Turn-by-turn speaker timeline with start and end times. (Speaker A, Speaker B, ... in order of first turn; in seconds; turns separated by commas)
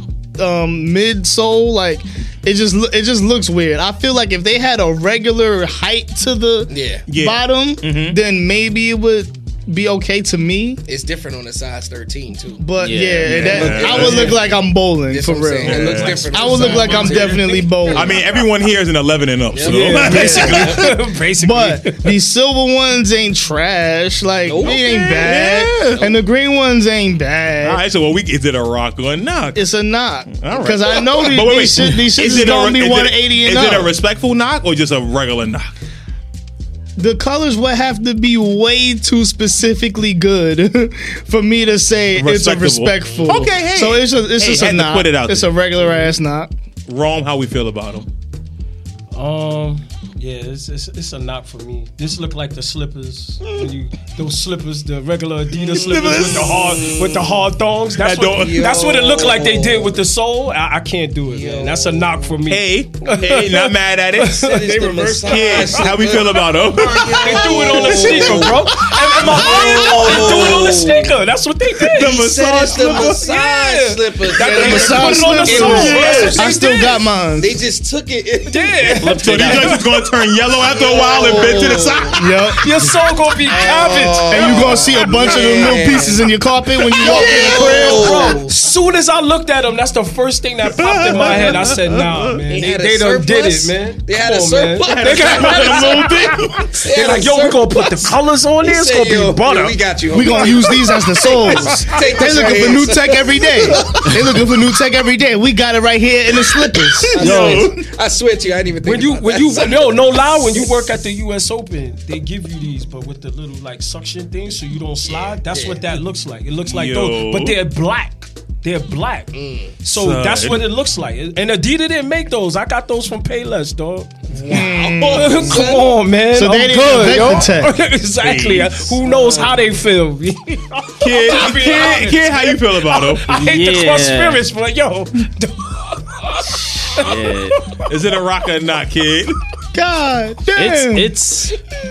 Speaker A: 0.4-10.8, Speaker B: 6.7-7.1, Speaker C: 7.1-8.2, Speaker B: 10.9-12.6, Speaker A: 12.6-18.2, Speaker D: 12.8-13.8, Speaker C: 13.2-14.3, Speaker B: 13.3-14.4, Speaker E: 13.8-14.3, Speaker B: 15.1-18.4, Speaker C: 15.6-16.3, Speaker E: 15.6-17.9, Speaker C: 17.9-20.9, Speaker B: 19.5-20.8, Speaker E: 19.6-22.2, Speaker A: 19.9-27.8, Speaker B: 24.4-25.3, Speaker C: 24.6-26.1, Speaker B: 25.9-26.1, Speaker C: 27.6-29.6, Speaker A: 29.5-33.9, Speaker C: 30.3-35.7, Speaker A: 37.0-46.5, Speaker C: 42.1-45.6, Speaker C: 46.9-48.1, Speaker E: 49.1-65.6, Speaker B: 53.4-53.7, Speaker B: 55.6-57.3, Speaker C: 55.7-56.7, Speaker C: 58.0-58.6, Speaker B: 58.3-59.9, Speaker B: 61.3-62.1, Speaker C: 62.5-64.4, Speaker B: 64.2-71.1, Speaker A: 64.7-66.0, Speaker C: 65.2-68.5, Speaker E: 67.0-77.0, Speaker A: 67.8-68.3, Speaker A: 69.4-70.6, Speaker C: 69.5-70.5, Speaker C: 71.8-73.2, Speaker B: 72.0-76.8, Speaker A: 74.4-77.6, Speaker C: 75.5-76.4, Speaker B: 77.3-79.5, Speaker E: 78.5-79.8, Speaker D: 79.0-79.8, Speaker C: 79.0-82.3, Speaker B: 80.7-82.2, Speaker A: 82.1-82.7, Speaker E: 82.6-85.3, Speaker B: 83.5-86.3, Speaker A: 84.3-88.4, Speaker B: 86.9-88.6, Speaker C: 87.0-87.8, Speaker E: 87.1-99.8, Speaker C: 90.7-92.4, Speaker B: 91.1-91.4, Speaker B: 92.5-98.1, Speaker C: 94.8-96.7, Speaker B: 98.6-104.3, Speaker A: 100.1-107.5, Speaker C: 107.1-107.8, Speaker B: 107.1-110.7, Speaker E: 107.2-107.7, Speaker E: 108.8-137.9, Speaker B: 115.1-115.8, Speaker C: 116.7-117.6, Speaker B: 119.3-119.8, Speaker C: 119.9-120.7, Speaker B: 124.3-126.0, Speaker A: 124.5-125.7, Speaker A: 126.3-127.7, Speaker C: 128.2-128.9, Speaker B: 129.0-129.6, Speaker C: 131.0-133.3, Speaker D: 133.3-134.4, Speaker D: 136.9-137.6, Speaker C: 137.8-139.4, Speaker A: 139.7-141.1, Speaker D: 140.5-141.6